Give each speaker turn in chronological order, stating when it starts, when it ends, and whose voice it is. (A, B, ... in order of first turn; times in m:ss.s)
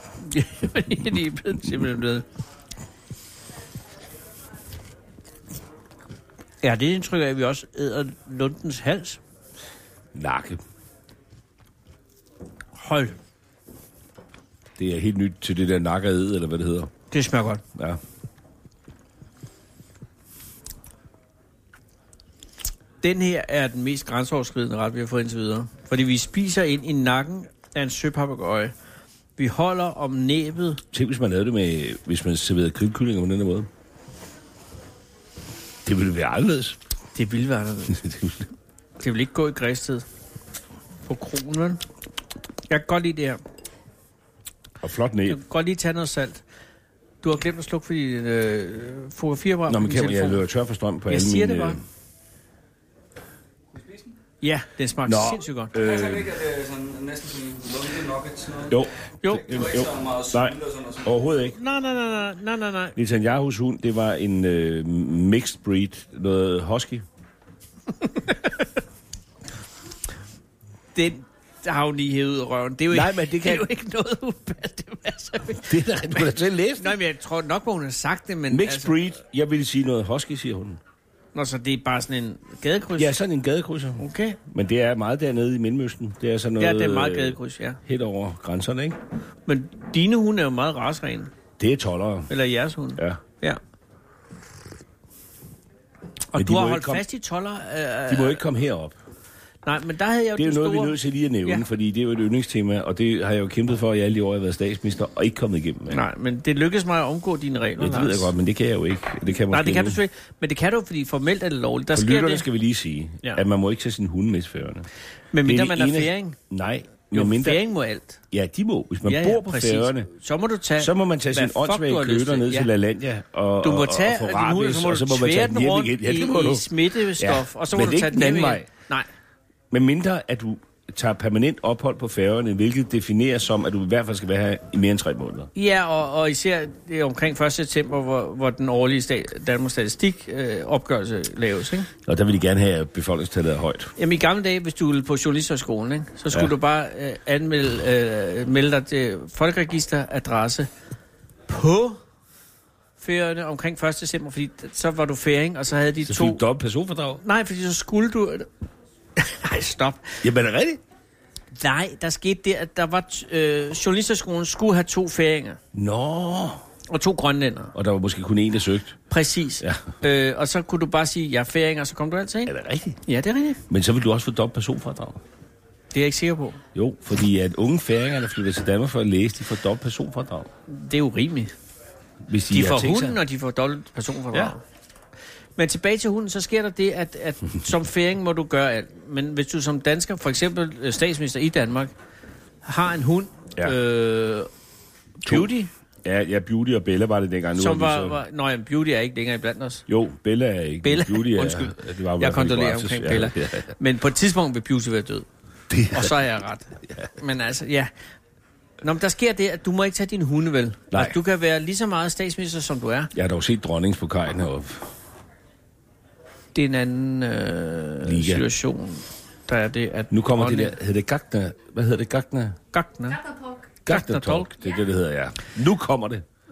0:00.2-0:02.2 A
0:06.6-0:09.2 A
0:10.1-0:10.6 B
0:12.8-0:13.2 A
0:14.8-0:16.9 B
0:17.1-0:17.6 A
0:23.0-0:28.7 A
0:29.4-0:30.8 A
0:30.9-0:33.7 B
0:35.8-0:36.8 B
0:37.1-0:38.0 A
0:37.9-0:38.4 B
0:39.0-0:40.0 A
0:41.0-0:41.8 A
0:42.7-0:43.4 A
0:44.8-0:45.4 B
0:45.3-0:46.4 A
0:47.2-0:50.4 A
0:49.7-0:51.8 B
0:51.1-0:51.8 A
0:53.7-0:54.1 C
0:54.4-0:55.7 A
0:55.0-0:56.4 B
0:55.8-0:58.7 C
0:58.7-1:01.6 B
0:59.2-0:59.5 A
0:59.5-1:01.0 C
1:01.5-1:03.0 A
1:03.0-1:07.0 B
1:10.9-1:18.9 A
1:12.9-1:13.7 B
1:15.6-1:17.0 B
1:18.5-1:20.8 B
1:21.3-1:23.1 A
1:23.0-1:29.0 B
1:24.0-1:24.4 A
1:26.6-1:27.8 A
1:29.4-1:31.3 A
1:31.6-1:32.3 B
1:32.3-1:33.6 A
1:36.3-1:38.4 A
1:36.3-1:37.0 B
1:38.1-1:39.0 B
1:39.6-1:41.6 A
1:40.4-1:46.0 B
1:45.9-1:48.3 A
1:47.8-1:50.0 B
1:49.5-1:52.4 A
1:51.9-1:54.9 B
1:55.3-1:56.4 A
1:55.4-1:57.6 B
1:57.1-1:58.2 A
1:58.3-2:00.1 B
1:59.0-2:02.7 A
2:00.8-2:08.7 B
2:03.6-2:09.1 A
2:09.7-2:15.5 B
2:15.5-2:21.9 A
2:22.0-2:23.9 B
2:24.0-2:30.7 A
2:31.5-2:32.0 A
2:33.0-2:36.4 A
2:36.0-2:37.2 B
2:37.2-2:38.5 A
2:39.2-2:40.2 A
2:40.2-2:40.8 B
2:41.5-2:45.6 A
2:45.7-2:46.6 B
2:46.9-2:47.7 A
2:47.7-2:49.0 B
2:49.1-2:52.5 A
2:49.6-2:49.9 B
2:52.4-2:53.0 B
2:53.0-2:53.6 A
2:53.7-2:55.2 B
2:55.9-2:56.6 A
2:56.7-3:00.5 B
3:00.7-3:01.5 A
3:02.2-3:03.2 B
3:02.5-3:04.6 A
3:05.6-3:11.9 A
3:12.6-3:14.5 A
3:15.2-3:15.7 A
3:16.0-3:18.2 B
3:17.6-3:19.8 A
3:19.9-3:23.7 B
3:20.8-3:25.3 A
3:25.7-3:26.3 B
3:25.9-3:27.9 A
3:26.8-3:27.1 B
3:28.8-3:33.1 A
3:30.9-3:31.2 B
3:33.1-3:34.9 B
3:36.5-3:40.7 A
3:38.0-3:38.5 B
3:40.1-3:42.6 B
3:42.7-3:43.2 A
3:43.8-3:46.2 B
3:43.9-3:44.5 A